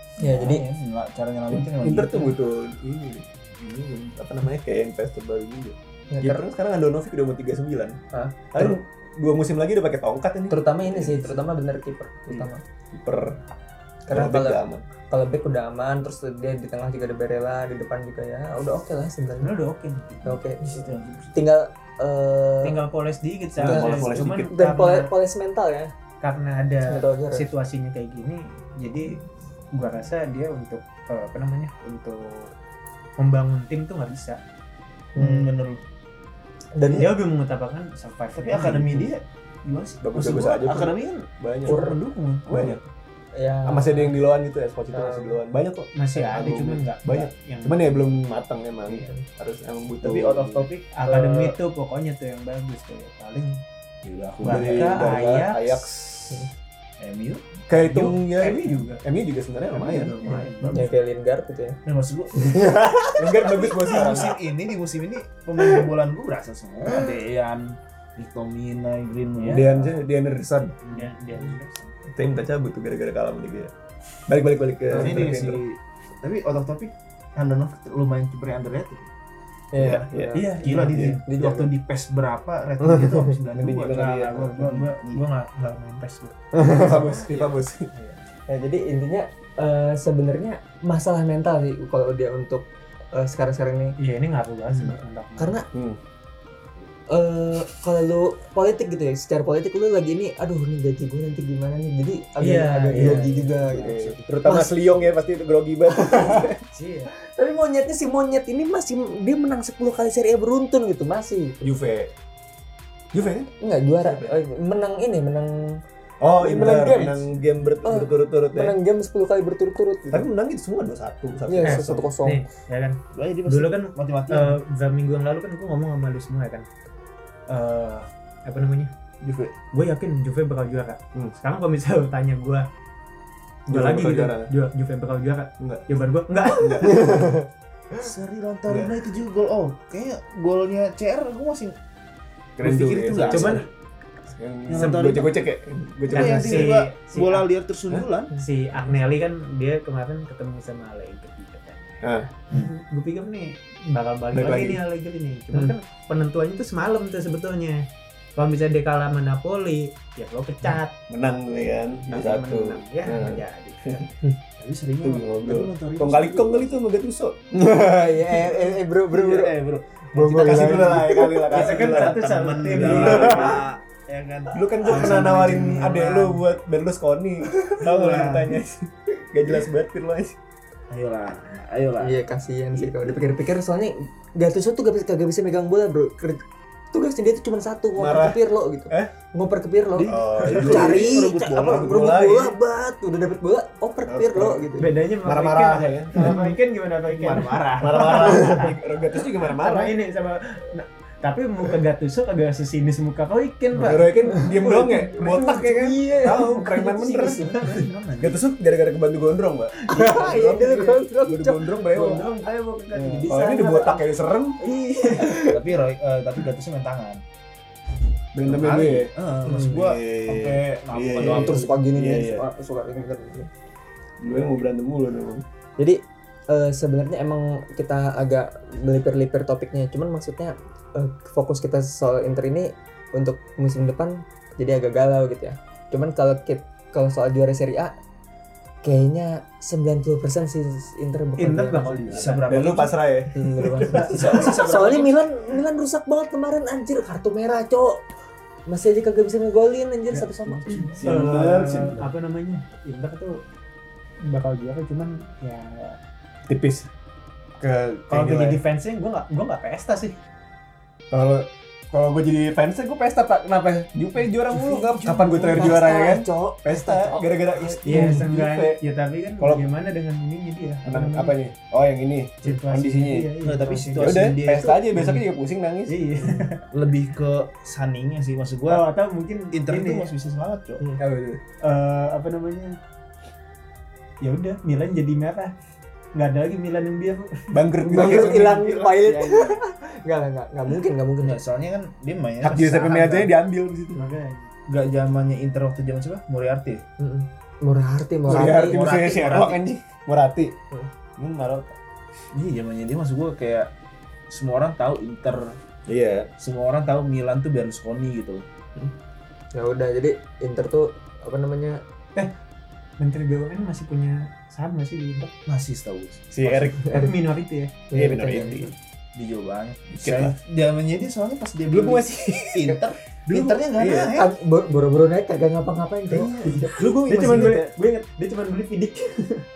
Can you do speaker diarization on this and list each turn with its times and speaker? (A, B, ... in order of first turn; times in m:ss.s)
0:00.2-0:00.6 A
0:00.2-0:02.4 B
0:01.5-0:03.3 C
0:04.2-0:08.0 C
0:06.1-0:06.4 A
0:08.1-0:08.8 A
0:08.5-0:11.4 C
0:10.5-0:12.6 A
0:12.3-0:13.4 C
0:14.0-0:19.5 A
0:14.1-0:14.9 C
0:19.4-0:20.4 D
0:20.2-0:20.7 A
0:20.6-0:21.5 B
0:21.3-0:22.8 A
0:22.6-0:25.1 D
0:23.6-0:24.5 C
0:23.6-0:25.9 A
0:26.2-0:32.5 D
0:26.8-0:27.5 A
0:33.2-0:34.4 D
0:35.2-0:35.5 A
0:35.2-0:35.8 B
0:36.8-0:37.2 A
0:36.8-0:39.1 D
0:38.3-0:42.8 B
0:40.0-0:41.8 C
0:41.7-0:42.0 A
0:42.5-0:42.8 C
0:43.3-0:44.2 A
0:43.6-0:50.7 C
0:44.9-0:45.4 A
0:45.9-0:48.2 D
0:50.0-0:51.6 B
0:50.9-0:53.6 D
0:54.0-0:55.0 B
0:54.4-0:55.9 D
0:54.4-0:56.5 C
0:57.0-0:57.6 B
0:57.7-1:00.3 C
0:57.7-0:59.0 D
0:59.7-1:00.9 D
1:00.1-1:00.9 B
1:00.7-1:01.8 A
1:01.8-1:02.6 B
1:02.4-1:03.5 A
1:03.1-1:04.4 C
1:03.4-1:10.0 B
1:09.4-1:10.8 C
1:10.8-1:11.9 B
1:10.9-1:11.6 D
1:12.1-1:13.7 C
1:14.3-1:15.6 C
1:14.9-1:19.1 B
1:15.0-1:15.3 A
1:19.7-1:21.7 A
1:19.8-1:21.2 C
1:20.3-1:21.2 D
1:20.6-1:25.2 B
1:22.9-1:23.3 A
1:23.5-1:24.4 C
1:23.9-1:26.6 D
1:26.5-1:27.2 A
1:26.7-1:27.9 C
1:28.0-1:28.2 D
1:28.5-1:34.0 A
1:34.0-1:35.6 D
1:34.7-1:34.9 B
1:35.4-1:35.7 A
1:35.7-1:36.0 C
1:37.1-1:44.8 A
1:42.4-1:43.4 D
1:42.9-1:43.3 C
1:43.0-1:44.2 B
1:44.1-1:46.6 C
1:45.9-1:46.5 A
1:46.7-1:47.1 D
1:47.2-1:51.7 A
1:51.6-1:52.1 C
1:53.1-1:54.4 C
1:53.6-1:55.8 A
1:56.2-1:58.8 C
1:56.4-1:57.3 A
1:57.8-2:00.3 A
2:00.1-2:02.1 C
2:01.5-2:02.5 A
2:01.6-2:06.7 D
2:03.1-2:04.6 B
2:07.5-2:08.9 D
2:09.2-2:09.6 B
2:09.7-2:12.7 D
2:13.7-2:17.1 D
2:13.7-2:14.5 C
2:15.6-2:15.8 C
2:16.5-2:17.3 C
2:16.8-2:17.4 A
2:18.0-2:21.8 B
2:22.6-2:23.7 C
2:22.6-2:23.7 B
2:23.2-2:23.7 D
2:24.4-2:26.8 C
2:24.7-2:25.3 B
2:24.7-2:25.3 D
2:26.1-2:27.5 D
2:26.1-2:28.4 B
2:28.3-2:41.0 D
2:32.0-2:32.3 C
2:34.3-2:34.8 C
2:41.1-2:44.1 C
2:42.1-2:44.0 D
2:44.6-2:46.8 B
2:45.0-2:47.4 C
2:47.5-2:49.5 A
2:48.4-2:56.4 B
2:50.1-2:51.5 A
2:50.3-2:53.6 C
2:51.5-2:53.6 D
2:54.5-3:00.4 C
2:57.5-2:58.6 B
3:00.9-3:02.2 B
3:02.0-3:14.9 A
3:02.7-3:03.2 B
3:08.0-3:09.1 C
3:10.0-3:12.0 B
3:10.0-3:12.6 C
3:14.1-3:14.7 C
3:14.8-3:18.8 D
3:15.2-3:16.5 C
3:17.1-3:18.4 B
3:17.8-3:19.9 C
3:19.4-3:26.0 D
3:23.7-3:24.0 B
3:23.8-3:27.5 C
3:24.3-3:24.6 A
3:25.2-3:27.5 A
3:27.0-3:28.4 B
3:28.2-3:32.3 C
3:29.9-3:32.2 A
3:29.9-3:30.6 D
3:30.0-3:30.6 B
3:31.9-3:34.1 D
3:32.9-3:34.6 C
3:34.6-3:35.4 D
3:35.5-3:37.2 B
3:38.3-3:39.1 C
3:38.4-3:41.7 B
3:39.5-3:39.8 A
3:39.7-3:42.4 C
3:41.2-3:43.5 A
3:44.2-3:45.4 C
3:45.8-3:58.0 A
3:58.8-4:02.2 A
4:01.4-4:02.7 D
4:02.1-4:03.0 B
4:02.1-4:04.5 C
4:03.3-4:08.0 A
4:03.8-4:05.2 B
4:08.7-4:11.0 A
4:10.1-4:13.4 D
4:10.4-4:11.0 B
4:11.0-4:12.1 C
4:14.2-4:16.0 D
4:16.5-4:16.9 C
4:17.6-4:18.6 C
4:18.1-4:20.2 D
4:21.1-4:28.8 C
4:24.6-4:25.7 B
4:24.9-4:28.2 A
4:27.8-4:31.4 D
4:29.4-4:29.7 C
4:30.8-4:33.3 C
4:32.4-4:34.4 D
4:33.4-4:34.9 B
4:34.0-4:36.0 C
4:35.0-4:35.2 D
4:35.9-4:36.6 D
4:36.7-4:38.9 B
4:38.7-4:40.1 D
4:39.5-4:40.8 B
4:41.0-4:41.4 C
4:41.6-4:42.8 D
4:44.2-4:45.6 D
4:46.1-4:47.6 D
4:47.5-4:48.9 C
4:47.8-4:51.4 A
4:48.0-4:49.6 B
4:51.2-4:53.3 B
4:52.4-4:54.1 C
4:54.0-4:54.5 D
4:54.7-4:56.8 B
4:57.0-4:58.8 A
4:58.3-5:00.6 C
4:58.3-4:59.6 B
5:01.2-5:01.8 C
5:02.3-5:03.7 B
5:04.3-5:05.6 B
5:05.9-5:06.3 C
5:06.4-5:08.5 B
5:09.5-5:11.8 A
5:13.0-5:15.3 D
5:15.5-5:16.7 B
5:16.3-5:17.1 C
5:16.8-5:17.8 D
5:17.9-5:18.7 A
5:17.9-5:18.7 C
5:19.2-5:24.3 B
5:20.0-5:20.4 C
5:21.7-5:22.8 C
5:23.3-5:24.2 C
5:24.1-5:26.9 A
5:26.1-5:27.8 C
5:26.9-5:29.4 D